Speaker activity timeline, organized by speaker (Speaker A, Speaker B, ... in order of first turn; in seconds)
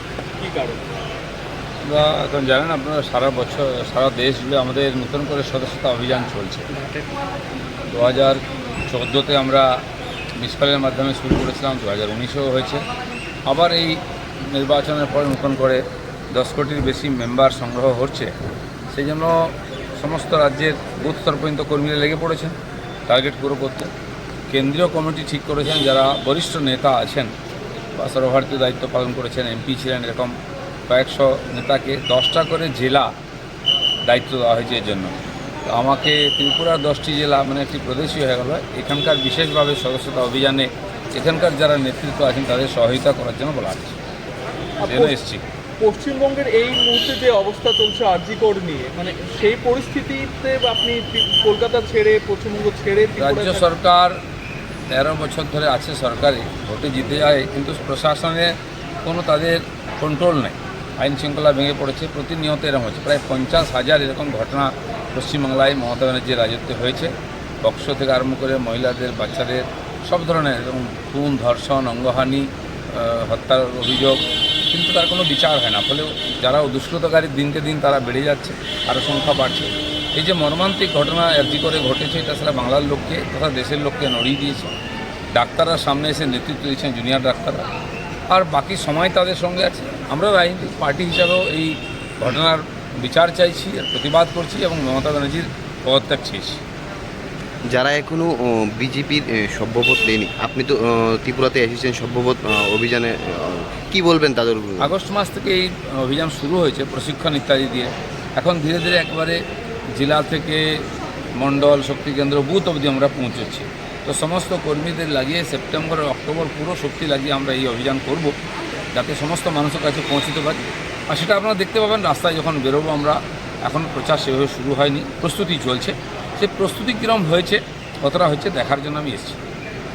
Speaker A: 0.4-0.9, 44.8-45.1, 45.8-53.6
Speaker B: 1.8-6.7, 7.9-9.7, 10.4-12.8, 13.5-14.0, 14.5-15.8, 16.3-18.3, 18.9-22.5, 23.1-23.9, 24.5-27.3, 27.9-30.3, 30.9-33.1, 34.1-35.1, 35.7-44.0, 44.8-45.4, 53.2-54.1, 54.9-58.5, 59.0-67.1, 67.6-74.2, 74.7-84.7, 85.3-87.7, 88.3-96.6, 104.8-109.4, 110.0-110.6, 111.4-118.3, 118.9-129.4
Speaker C: 97.7-104.9